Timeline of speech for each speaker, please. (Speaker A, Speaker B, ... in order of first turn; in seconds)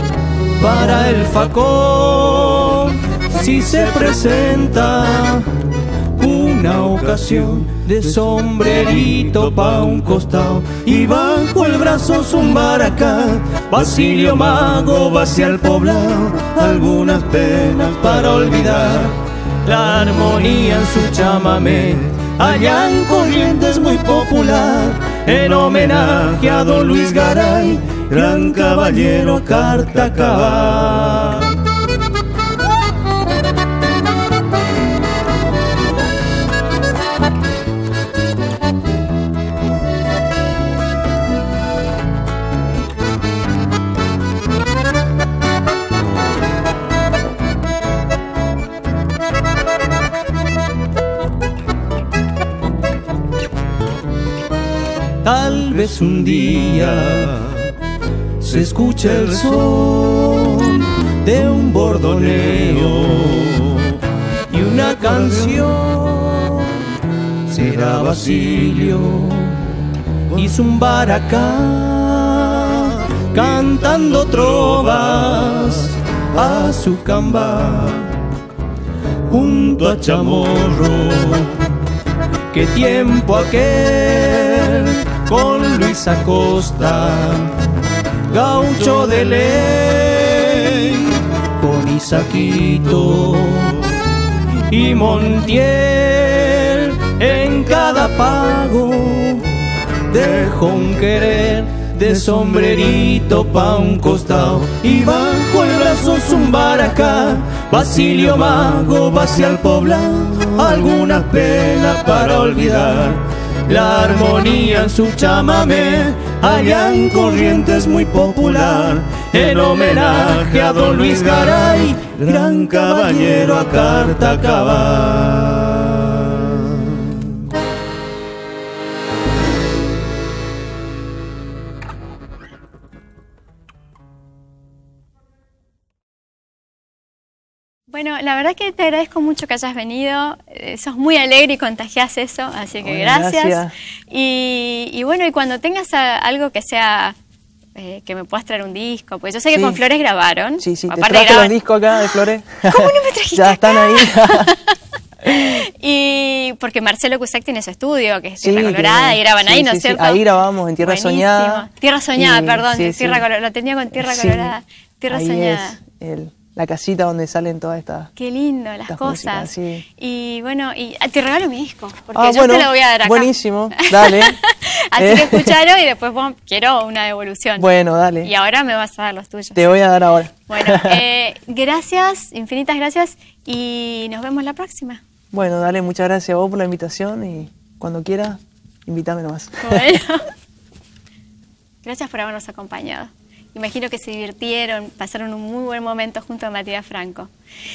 Speaker A: 0.6-31.6, 55.2-57.7, 58.4-66.9, 67.5-69.8, 70.3-78.2, 79.2-81.8, 82.5-87.6, 88.3-94.1, 94.7-127.4
Speaker B: 137.9-147.2, 147.7-160.2, 160.8-165.8, 168.2-177.7, 178.2-179.7, 180.5-185.0, 189.6-190.3, 191.8-197.3
Speaker C: 142.8-143.7, 149.5-149.8, 150.6-154.5, 158.4-163.3, 163.9-164.5, 165.1-168.1, 168.9-169.8, 172.1-174.4, 175.0-175.6, 177.6-178.3, 179.5-181.0, 185.3-190.0